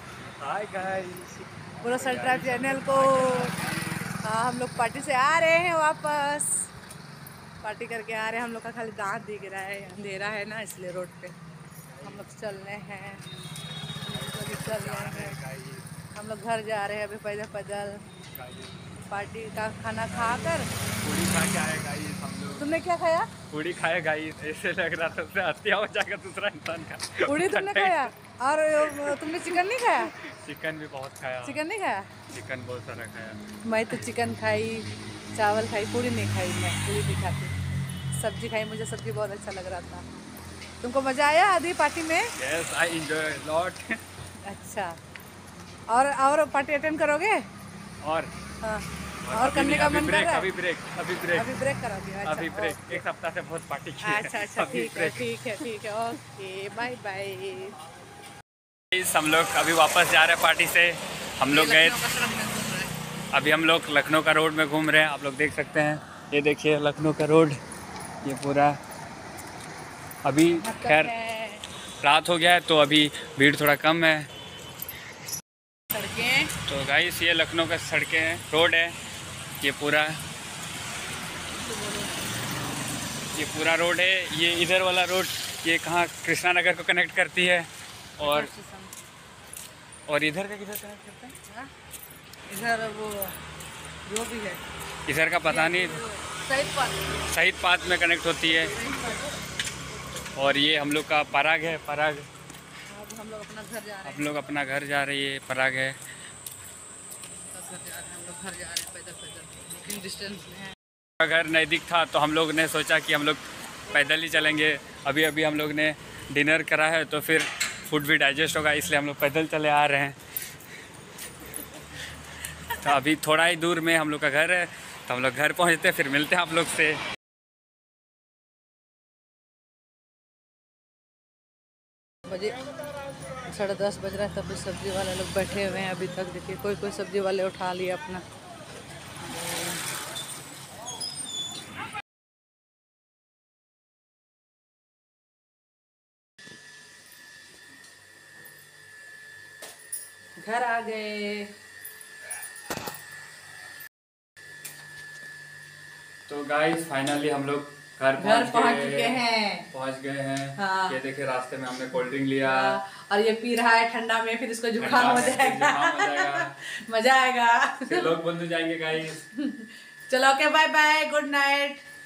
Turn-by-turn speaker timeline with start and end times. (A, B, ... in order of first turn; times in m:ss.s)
0:00.3-0:04.1 A
0:01.8-0:03.5 B
0:04.1-0:06.7 B
0:07.6-0:11.4 B
0:11.9-0:12.2 A
0:12.0-0:13.2 B
0:14.0-0:15.4 B
0:14.1-0:15.8 A
0:16.1-0:18.0 B
0:18.3-0:18.9 A
0:19.1-0:20.7 B
0:20.1-0:22.7 A
0:22.6-0:23.3 B
0:23.5-0:28.1 A
0:27.2-0:30.1 B
0:28.8-0:31.6 A
0:31.4-0:32.1 B
0:32.3-0:33.4 A
0:33.6-0:37.5 B
0:38.1-0:40.0 B
0:40.8-0:42.3 B
0:42.4-0:44.0 A
0:44.4-0:45.0 B
0:45.9-0:47.4 B
0:48.0-0:48.3 A
0:48.6-0:50.5 B
0:49.2-0:51.5 A
0:51.3-0:53.0 B
0:52.2-0:55.3 A
0:54.0-0:57.8 B
0:58.9-1:02.0 A
1:01.5-1:02.9 B
1:03.3-1:07.6 A
1:08.2-1:08.8 A
1:10.2-1:11.1 A
1:10.5-1:11.6 B
1:12.0-1:14.3 A
1:15.9-1:16.5 B
1:16.6-1:19.0 A
1:19.6-1:20.2 A
1:21.6-1:22.3 B
1:23.3-1:28.5 A
1:28.2-1:28.9 B
1:30.1-1:31.3 A
1:31.4-1:31.7 B
1:32.5-1:33.4 B
1:34.0-1:34.6 B
1:35.0-1:36.0 A
1:35.4-1:37.2 B
1:37.2-1:38.7 A
1:38.6-1:39.4 B
1:40.4-1:42.3 A
1:42.9-1:44.4 B
1:44.0-1:46.0 A
1:47.5-1:50.7 B
1:51.2-2:00.2 A
2:02.7-2:07.0 A
2:12.3-2:12.6 B
2:13.4-2:18.2 B
2:19.2-2:19.8 B
2:30.4-2:31.5 B
2:36.3-2:42.8 A
2:38.2-2:39.7 B
2:40.6-2:41.0 B
2:42.4-2:48.2 B
2:44.8-2:46.6 A
2:47.8-2:49.2 A
2:49.3-2:51.8 B